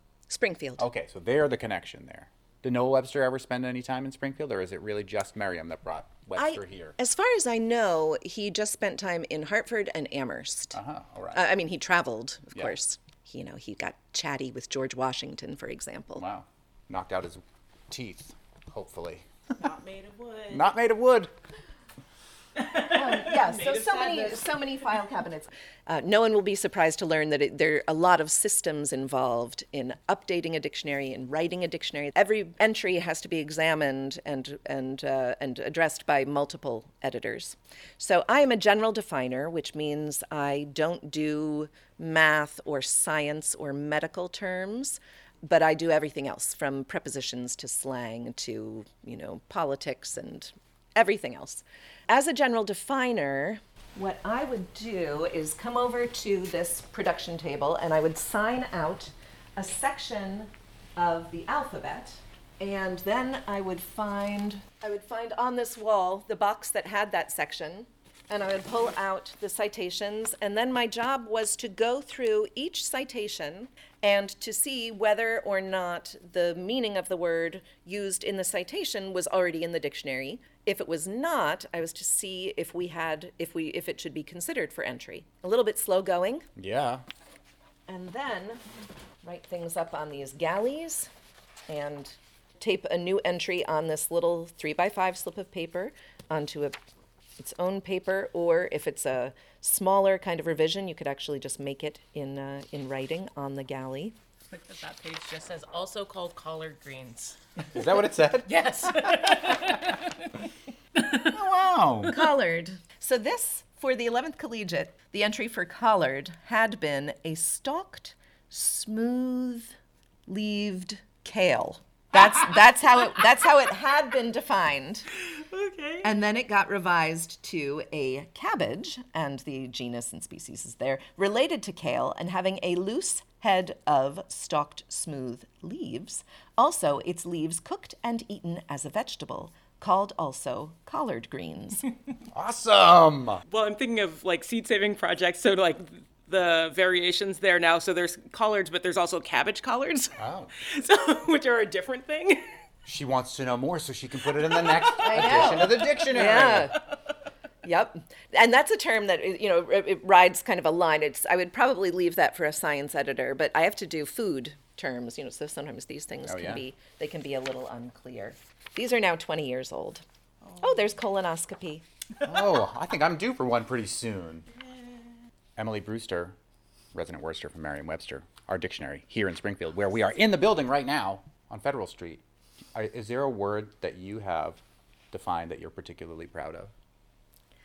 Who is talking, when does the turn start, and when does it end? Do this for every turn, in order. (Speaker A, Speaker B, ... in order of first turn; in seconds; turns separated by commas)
Speaker A: 0.3-0.9, Speaker B: 0.8-7.0, Speaker A: 6.4-10.8, Speaker B: 10.7-11.4, Speaker A: 11.3-16.3, Speaker B: 16.2-19.3, Speaker C: 19.6-20.7, Speaker B: 20.5-21.3, Speaker C: 22.6-24.6, Speaker A: 22.9-86.5, Speaker B: 86.6-87.0, Speaker A: 87.9-88.6, Speaker A: 89.2-91.1, Speaker A: 91.7-96.8, Speaker A: 97.4-104.2, Speaker C: 104.5-107.8, Speaker B: 107.7-109.4, Speaker C: 108.5-110.4, Speaker C: 111.0-111.4, Speaker B: 111.2-112.2, Speaker A: 112.1-119.7, Speaker A: 120.3-125.1, Speaker C: 125.3-126.1, Speaker A: 126.0-141.8, Speaker B: 142.3-143.4, Speaker C: 143.5-152.4, Speaker B: 150.2-150.5, Speaker B: 152.9-156.7, Speaker C: 154.6-155.0, Speaker A: 155.0-156.8, Speaker A: 157.6-170.0, Speaker B: 166.3-166.6, Speaker A: 170.6-171.8, Speaker B: 172.2-174.5, Speaker B: 175.6-176.4, Speaker B: 176.9-182.2, Speaker B: 182.8-184.6, Speaker B: 185.1-186.7